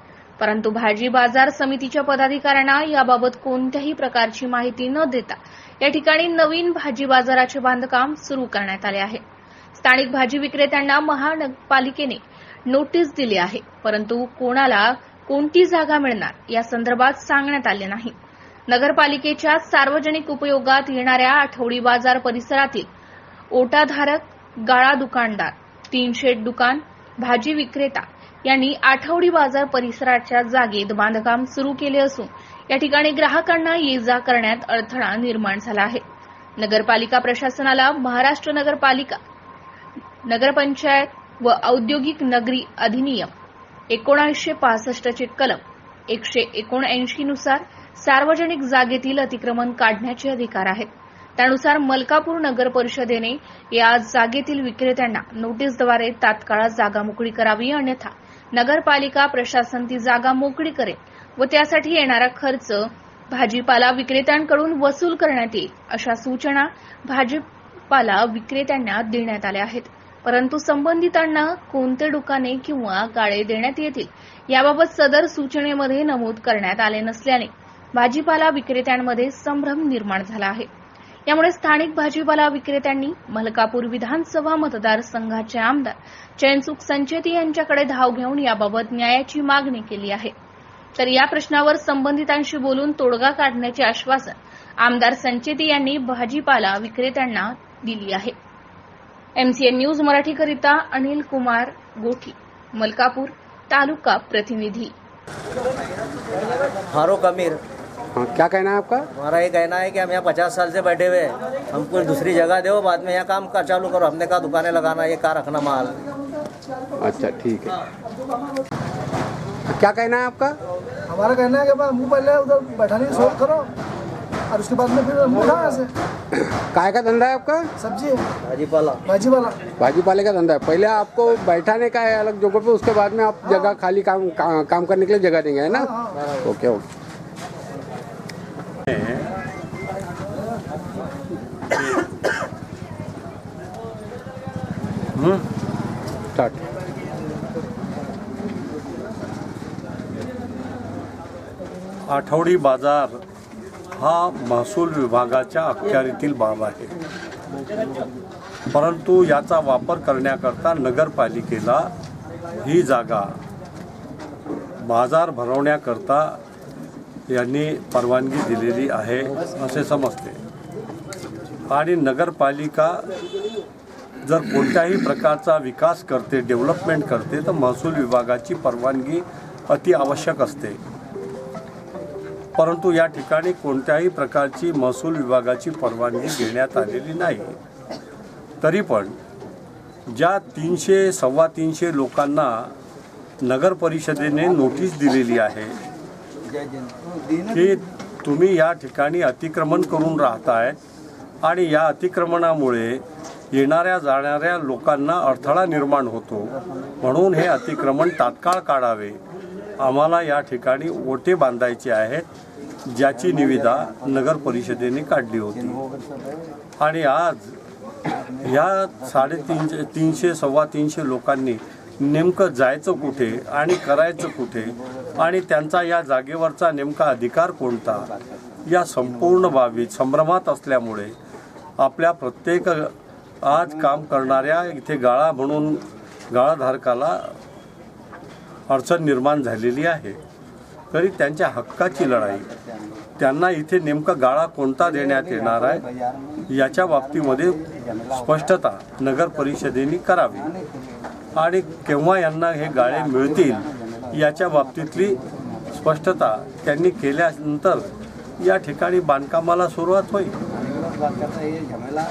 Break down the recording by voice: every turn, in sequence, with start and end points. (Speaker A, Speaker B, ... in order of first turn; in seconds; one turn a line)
Speaker A: 0.4-9.2
Speaker A: 9.8-18.1
Speaker A: 18.7-22.9
Speaker A: 23.5-36.0
Speaker A: 36.6-39.2
Speaker A: 40.3-43.3
Speaker A: 43.9-80.7
Speaker A: 81.3-90.3
Speaker A: 91.0-98.3
Speaker A: 99.4-104.9
Speaker B: 106.9-107.6
Speaker C: 108.2-109.1
Speaker B: 109.1-116.0
Speaker C: 117.0-117.8
Speaker C: 119.7-120.6
Speaker D: 121.1-123.6
Speaker D: 124.5-125.9
Speaker C: 126.5-127.7
Speaker B: 128.4-129.3
Speaker C: 129.8-136.8
Speaker E: 138.9-139.3
Speaker E: 141.8-142.1
Speaker E: 145.2-145.5
Speaker C: 146.3-146.6
Speaker E: 152.1-153.2
Speaker E: 154.0-156.9
Speaker E: 158.7-161.9
Speaker E: 162.6-163.3
Speaker E: 164.8-166.4
Speaker E: 167.3-170.4
Speaker E: 171.7-173.0
Speaker E: 174.2-180.8
Speaker E: 182.6-187.6
Speaker E: 188.6-189.2
Speaker E: 190.1-192.7
Speaker E: 193.4-195.8
Speaker E: 197.5-200.8
Speaker E: 201.4-209.2
Speaker E: 209.8-212.3
Speaker E: 212.9-215.8
Speaker E: 216.8-217.6
Speaker E: 218.4-228.1
Speaker E: 228.7-231.1
Speaker E: 231.8-237.3
Speaker E: 238.7-240.2
Speaker E: 240.9-242.5
Speaker E: 243.2-245.9
Speaker E: 246.5-250.5
Speaker E: 251.4-255.2
Speaker E: 255.7-257.9
Speaker E: 258.4-260.4